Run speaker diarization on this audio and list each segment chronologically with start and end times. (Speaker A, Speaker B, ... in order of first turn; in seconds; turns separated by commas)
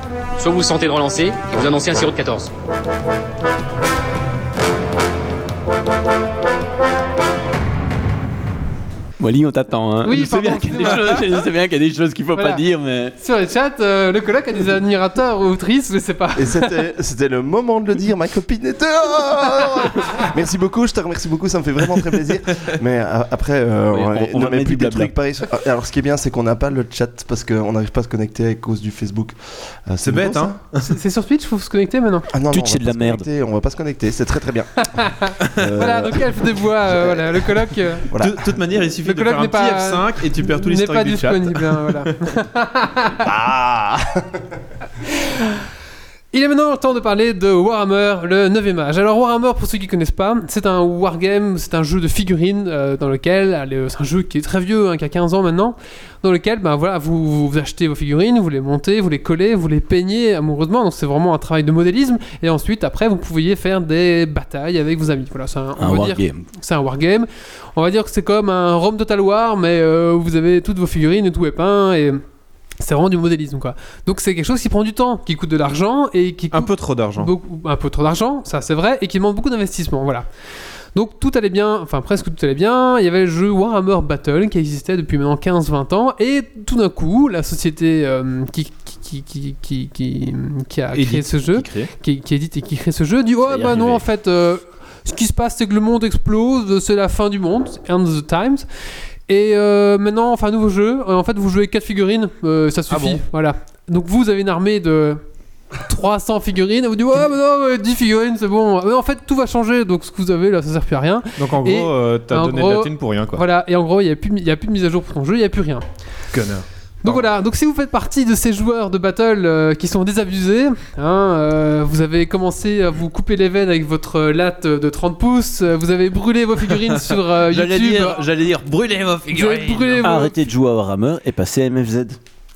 Speaker A: 0.4-2.5, Speaker B: 9.2-13.2, Speaker C: 10.0-11.4, Speaker C: 12.3-12.6, Speaker C: 13.2-16.7, Speaker D: 16.4-30.6, Speaker B: 23.9-25.1, Speaker E: 30.0-30.9, Speaker C: 30.8-32.3, Speaker D: 32.3-34.9, Speaker B: 32.5-33.3, Speaker C: 34.8-38.1, Speaker D: 35.6-36.2, Speaker D: 36.9-37.5, Speaker D: 38.1-38.5, Speaker E: 38.2-42.1, Speaker C: 39.0-43.2, Speaker D: 43.2-44.3, Speaker C: 46.3-72.2, Speaker B: 65.8-66.5, Speaker C: 72.8-80.2, Speaker E: 76.5-77.3, Speaker C: 80.9-98.6, Speaker E: 90.9-91.9, Speaker B: 93.5-94.0, Speaker C: 99.3-105.2, Speaker E: 102.9-103.2, Speaker C: 105.8-115.8, Speaker E: 111.4-113.4, Speaker E: 116.3-117.3, Speaker C: 117.0-128.2, Speaker E: 126.7-130.2, Speaker C: 129.3-130.3, Speaker B: 130.0-132.2